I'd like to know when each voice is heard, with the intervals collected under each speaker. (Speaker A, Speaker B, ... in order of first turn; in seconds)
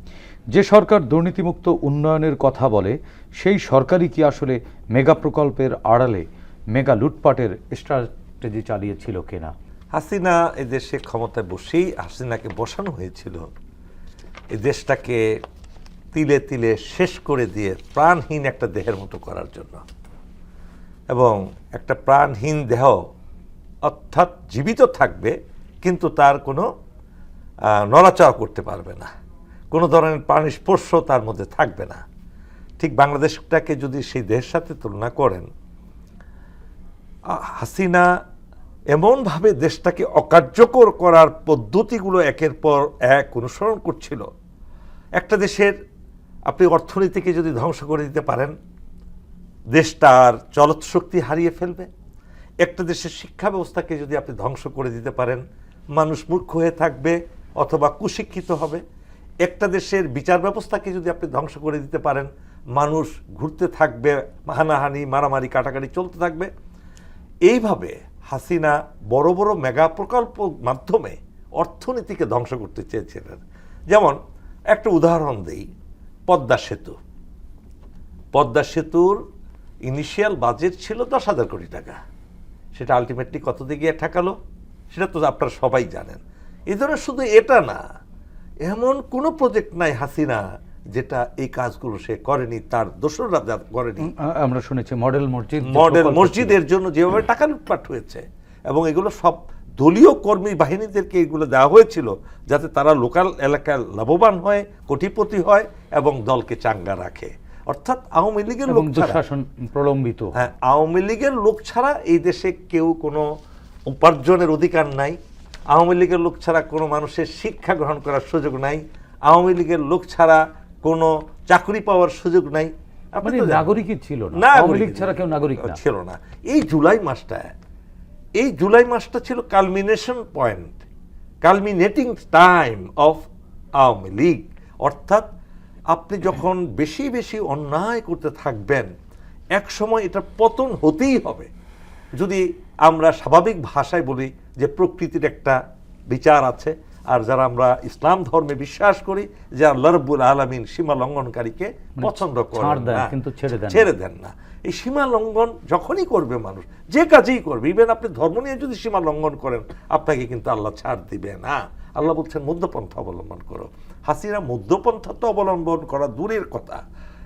Speaker A: 0.5-9.5, 94.0-96.6, 108.7-110.3, 123.2-125.8, 152.0-153.9
Speaker B: 9.9-13.5, 14.6-15.2, 16.1-19.9, 21.1-23.0, 23.9-26.7, 27.7-29.1, 29.7-32.0, 32.8-35.5, 37.3-38.1, 38.9-44.3, 45.2-45.8, 46.5-48.5, 49.8-51.9, 52.6-55.4, 56.0-58.8, 59.4-66.5, 67.5-74.2, 74.7-75.7, 76.3-77.0, 78.3-79.2, 79.9-82.0, 82.8-84.4, 84.9-87.8, 88.7-90.4, 91.0-94.1, 95.7-109.2, 110.4-113.3, 113.9-115.2, 115.7-123.7, 124.4-127.5, 128.4-130.8, 131.4-133.2, 133.8-135.3, 135.9-138.9, 139.6-141.5, 142.2-145.6, 146.1-153.1, 153.7-166.8